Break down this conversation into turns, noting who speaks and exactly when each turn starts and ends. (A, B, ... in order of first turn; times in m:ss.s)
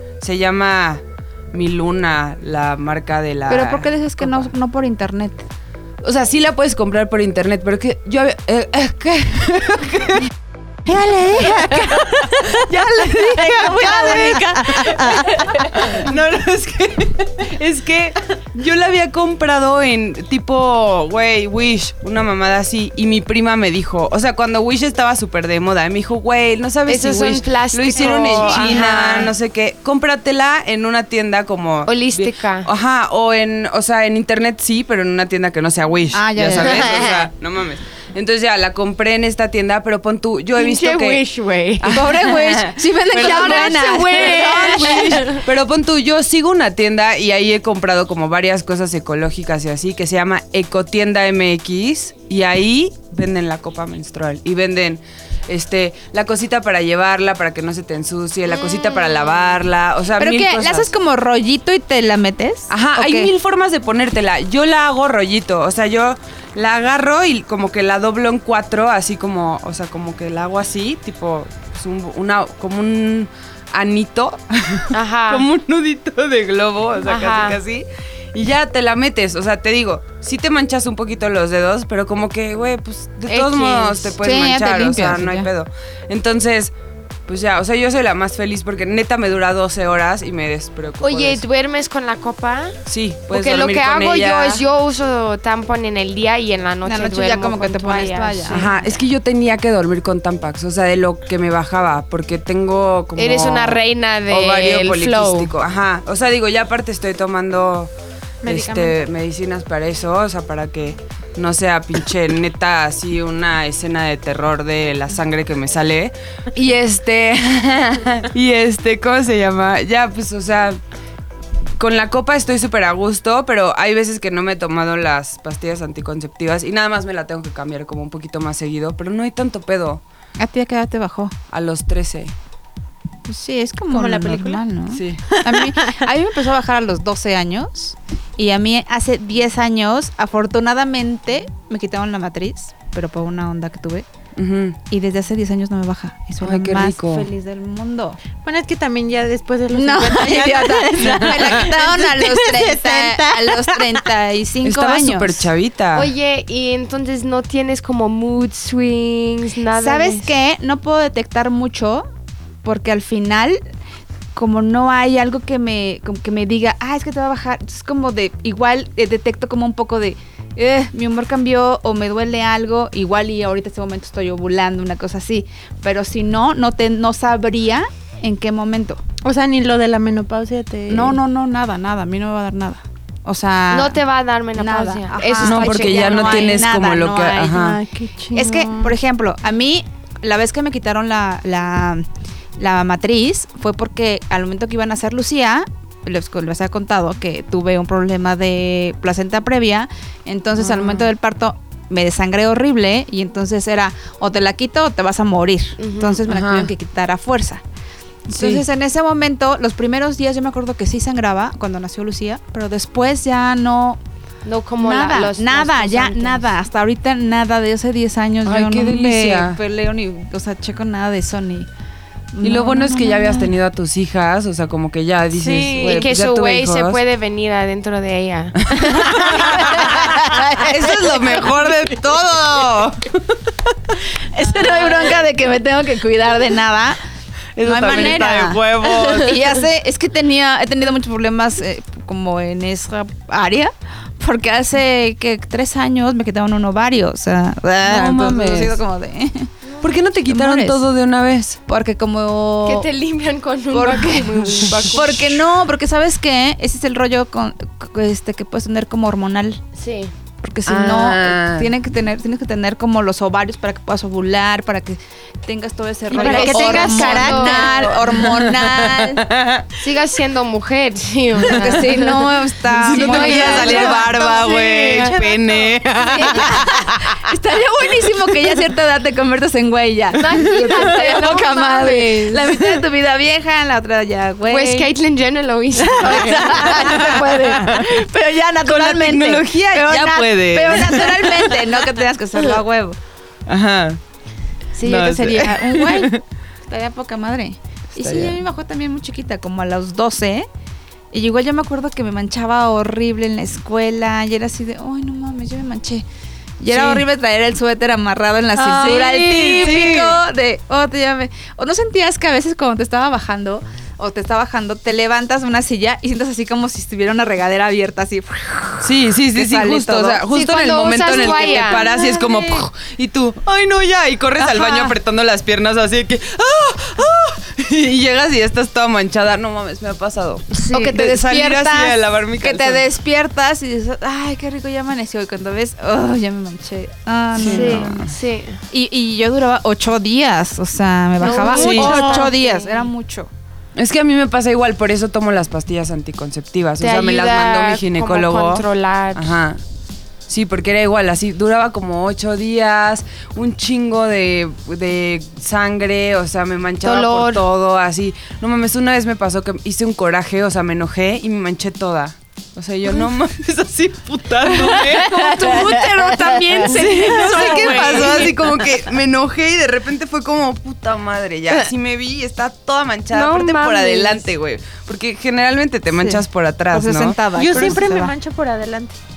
0:00.2-0:01.0 A
0:01.5-0:04.5 A
0:03.5-0:05.4 B
0:06.0-0:10.3 A
0:10.8-0:15.6 C
0:11.5-0:12.1 A
0:12.7-0:15.6 B
0:12.7-0:41.2 A
0:26.9-0:29.3 D
0:28.4-0:29.0 B
0:31.9-0:32.7 D
0:36.1-0:37.2 B
0:36.6-0:37.2 D
0:40.6-0:42.0 D
0:41.8-1:00.9 A
0:41.9-0:45.2 B
0:43.1-0:45.4 D
0:58.5-0:59.6 D
1:00.2-1:03.3 B
1:02.7-1:26.7 A
1:14.9-1:15.4 D
1:17.0-1:17.6 D
1:23.3-1:24.1 D
1:24.2-1:25.5 B
1:27.3-1:31.4 A
1:31.0-1:32.7 D
1:32.8-1:34.6 A
1:33.3-1:38.9 D
1:36.8-1:38.7 B
1:38.5-1:47.9 A
1:43.2-1:45.5 D
1:48.4-1:49.0 C
1:48.4-2:00.8 A
2:01.8-2:10.0 A
2:10.4-2:11.3 B
2:11.5-2:12.3 A
2:13.2-2:24.0 B
2:13.9-2:14.6 C
2:14.9-2:15.2 A
2:15.3-2:16.0 C
2:24.4-2:24.8 A
2:24.9-2:28.2 B
2:26.4-2:27.3 A
2:28.4-2:34.0 C
2:29.7-2:35.5 B
2:34.6-2:36.1 A
2:35.9-2:40.3 D
2:39.7-2:42.1 B
2:42.6-2:43.6 B
2:44.3-2:59.0 B
2:59.2-3:01.2 C
3:00.9-3:04.0 B
3:03.7-3:06.6 D
3:04.6-3:07.8 B
3:05.4-3:07.8 A
3:07.6-3:08.9 C
3:08.3-3:12.0 B
3:12.6-3:27.6 B
3:20.6-3:21.1 A
3:25.8-3:26.2 D
3:26.3-3:26.7 A
3:28.3-3:34.0 B
3:28.3-3:28.6 A
3:34.4-3:36.5 D
3:34.8-3:41.7 B
3:38.4-3:39.6 A
3:42.3-3:43.5 B
3:42.4-3:47.0 A
3:45.3-3:46.1 C
3:45.8-3:49.8 D
3:48.7-3:53.3 A
3:49.2-3:51.0 B
3:54.3-3:57.0 B
3:57.6-3:59.5 A
3:57.6-4:09.5 B
4:07.8-4:08.8 A
4:09.8-4:11.6 A
4:10.3-4:10.8 B
4:11.7-4:12.9 B
4:12.6-4:15.3 D
4:13.7-4:19.6 B
4:19.8-4:20.1 D
4:20.4-4:29.2 B
4:20.7-4:21.7 A
4:26.1-4:28.0 C
4:26.1-4:27.9 D
4:28.2-4:29.7 A
4:29.8-4:32.3 D
4:31.4-4:34.1 B
4:32.7-4:37.2 A
4:32.9-4:35.1 D
4:33.0-4:36.5 C
4:36.1-4:44.9 B
4:40.2-4:42.5 D
4:44.4-4:46.7 D
4:45.8-4:53.0 B
4:46.0-4:47.0 C
4:46.7-4:47.9 A
4:48.6-4:51.5 A
4:53.5-4:54.0 A
4:54.8-4:56.2 B
4:54.8-4:56.2 A
4:56.7-5:00.5 B
4:58.0-4:58.4 A
5:01.1-5:06.0 B
5:06.6-5:20.2 B
5:06.7-5:07.0 A
5:08.6-5:10.0 C
5:08.7-5:10.2 A
5:18.8-5:32.8 A
5:20.3-5:21.8 D
5:21.1-5:22.6 B
5:24.4-5:24.9 B
5:30.5-5:30.9 D
5:30.6-5:38.0 B
5:37.4-5:38.1 A
5:37.4-5:38.6 D
5:38.7-5:43.3 B
5:41.2-5:42.8 D
5:41.4-5:42.1 C
5:41.5-5:42.2 A
5:43.8-5:49.6 A
5:46.8-5:49.3 D
5:50.3-6:05.6 A
5:56.8-5:57.4 D
6:04.8-6:08.3 D
6:04.8-6:08.2 B
6:06.6-6:17.2 A
6:07.2-6:08.3 C
6:13.1-6:14.3 D
6:16.0-6:18.1 B
6:17.3-6:19.0 C